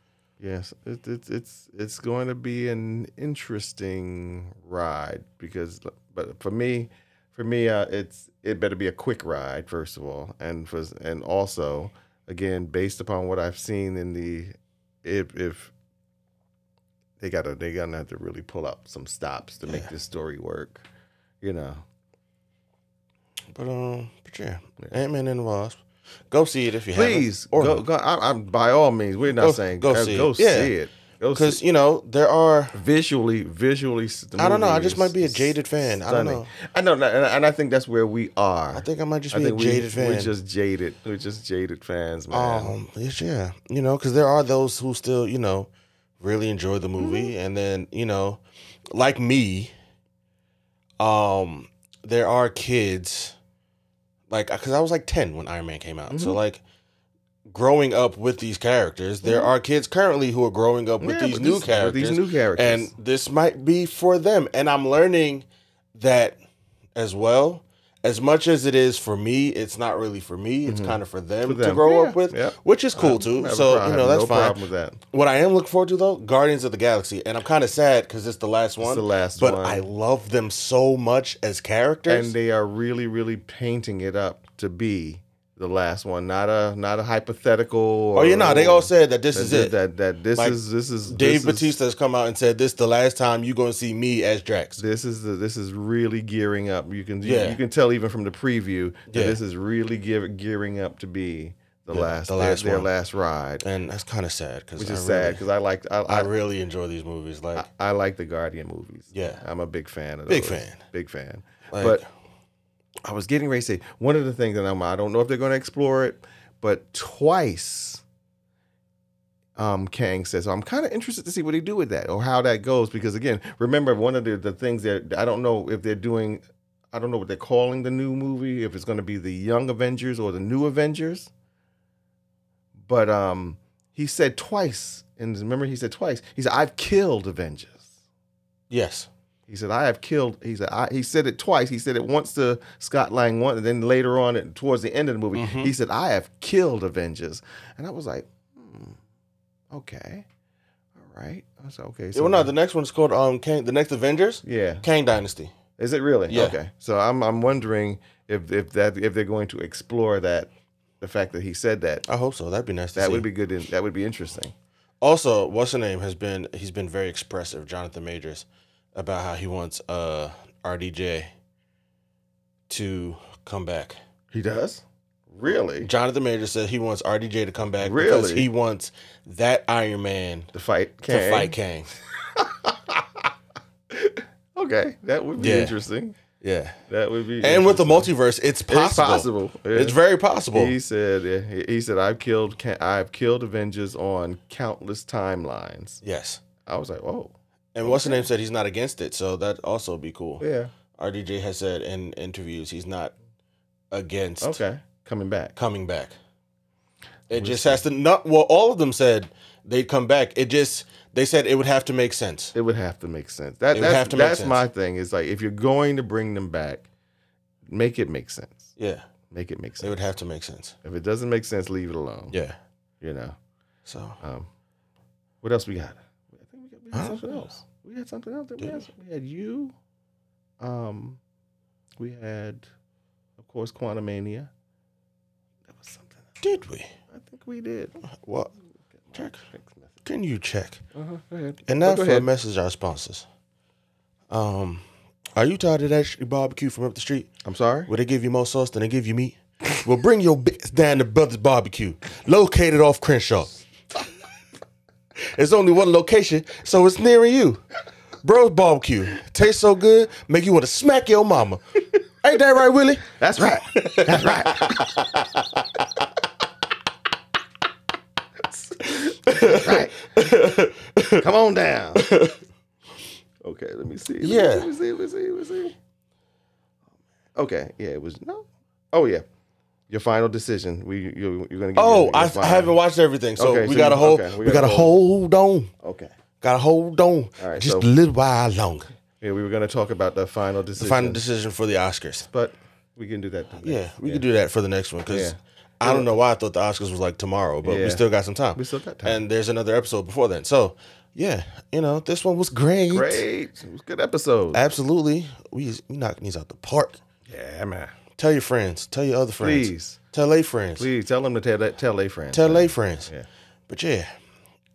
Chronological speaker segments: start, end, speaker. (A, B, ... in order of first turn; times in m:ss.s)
0:00.4-0:14.5 A
0:15.0-0:15.7 A
0:17.2-0:20.8 A
0:21.4-0:21.8 A
0:23.5-0:27.8 B
0:26.9-0:31.6 A
0:29.3-0:30.7 B
0:31.3-0:32.8 B
0:32.7-0:42.7 A
0:34.4-0:36.5 B
0:38.7-0:40.3 B
0:42.3-0:45.7 B
0:46.2-0:48.4 B
0:47.0-0:47.3 A
0:48.9-0:49.7 B
0:51.0-0:53.4 B
0:54.3-0:56.6 B
0:56.1-0:56.4 A
0:57.4-1:06.4 B
0:59.2-0:59.5 A
1:01.0-1:02.9 A
1:07.0-1:14.6 B
1:10.7-1:15.0 A
1:15.1-1:22.3 B
1:18.8-1:19.8 A
1:22.1-1:31.7 A
1:28.1-1:29.8 B
1:30.4-1:34.8 B
1:34.8-1:43.6 A
1:37.2-1:37.6 B
1:39.1-1:39.4 B
1:41.9-1:42.9 B
1:43.6-1:45.4 B
1:44.8-1:46.3 A
1:46.1-1:47.6 B
1:47.5-1:52.0 A
1:49.1-1:49.4 B
1:50.3-1:50.8 B
1:51.7-1:52.0 B
1:53.0-1:58.0 A
1:59.6-2:11.3 A
2:12.8-2:17.9 A
2:18.7-2:19.1 B
2:19.5-2:29.0 A
2:25.3-2:25.7 B
2:29.7-2:30.2 A
2:31.0-2:32.5 A
2:32.1-2:35.5 B
2:34.4-2:34.8 A
2:35.8-2:42.0 A
2:36.3-2:36.6 B
2:42.1-2:43.3 B
2:43.0-2:44.5 A
2:45.0-2:51.3 B
2:52.7-2:54.0 B
2:54.3-2:55.9 A
2:55.8-3:00.5 B
2:57.8-2:58.5 A
3:00.5-3:01.6 A
3:01.1-3:01.9 B
3:02.2-3:03.3 A
3:03.9-3:06.2 A
3:05.4-3:05.8 B
3:06.4-3:06.8 B
3:06.9-3:08.1 A
3:07.4-3:10.7 B
3:08.7-3:10.0 A
3:10.5-3:16.0 A
3:16.0-3:16.4 B
3:16.6-3:17.3 A
3:17.7-3:20.4 B
3:17.8-3:18.3 A
3:20.4-3:20.7 A
3:20.9-3:23.1 B
3:23.9-3:24.6 B
3:24.4-3:25.5 A
3:25.5-3:26.2 B
3:27.3-3:32.5 B
3:27.3-3:27.8 A
3:32.5-3:36.9 A
3:33.7-3:34.6 B
3:37.6-3:38.7 A
3:38.8-3:39.1 B
3:39.3-3:40.0 A
3:39.8-3:40.8 B
3:40.8-3:42.3 A
3:42.3-3:42.6 B
3:43.0-3:43.3 A
3:43.8-3:44.2 B
3:44.2-3:44.5 A
3:45.4-3:49.7 A
3:46.9-3:47.2 B
3:50.6-3:51.2 A
3:52.0-3:52.6 A
3:53.4-3:54.5 A
3:55.7-3:56.2 A
3:56.4-3:56.9 B
3:57.1-3:58.0 A
3:58.0-3:58.5 B
3:59.1-3:59.9 A
3:59.1-3:59.4 B
4:00.0-4:00.8 B
4:00.9-4:02.3 A
4:01.7-4:03.2 B
4:04.3-4:04.8 B
4:05.4-4:07.3 B
4:07.4-4:07.9 A
4:07.9-4:13.5 B
4:15.3-4:17.6 B
4:18.2-4:25.8 B
4:23.1-4:25.4 A
4:28.5-4:30.0 A
4:28.9-4:31.2 B
4:31.2-4:32.0 A
4:32.0-4:32.4 B
4:33.4-4:35.7 A
4:34.2-4:34.7 B
4:37.3-4:39.2 A
4:39.9-4:42.8 A
4:41.7-4:45.7 B
4:43.4-4:45.0 A
4:45.8-4:46.1 A
4:46.4-4:48.9 B
4:47.4-4:47.9 A
4:49.2-4:51.2 A
4:50.8-4:52.3 B
4:52.3-4:54.2 A
4:53.6-5:03.2 B
4:55.1-4:56.1 A
4:57.6-4:59.2 A
5:02.9-5:04.6 A
5:04.5-5:07.0 B
5:07.3-5:07.9 A
5:08.2-5:10.9 B
5:09.4-5:10.0 A
5:10.8-5:13.2 A
5:12.3-5:13.1 B
5:13.7-5:14.1 B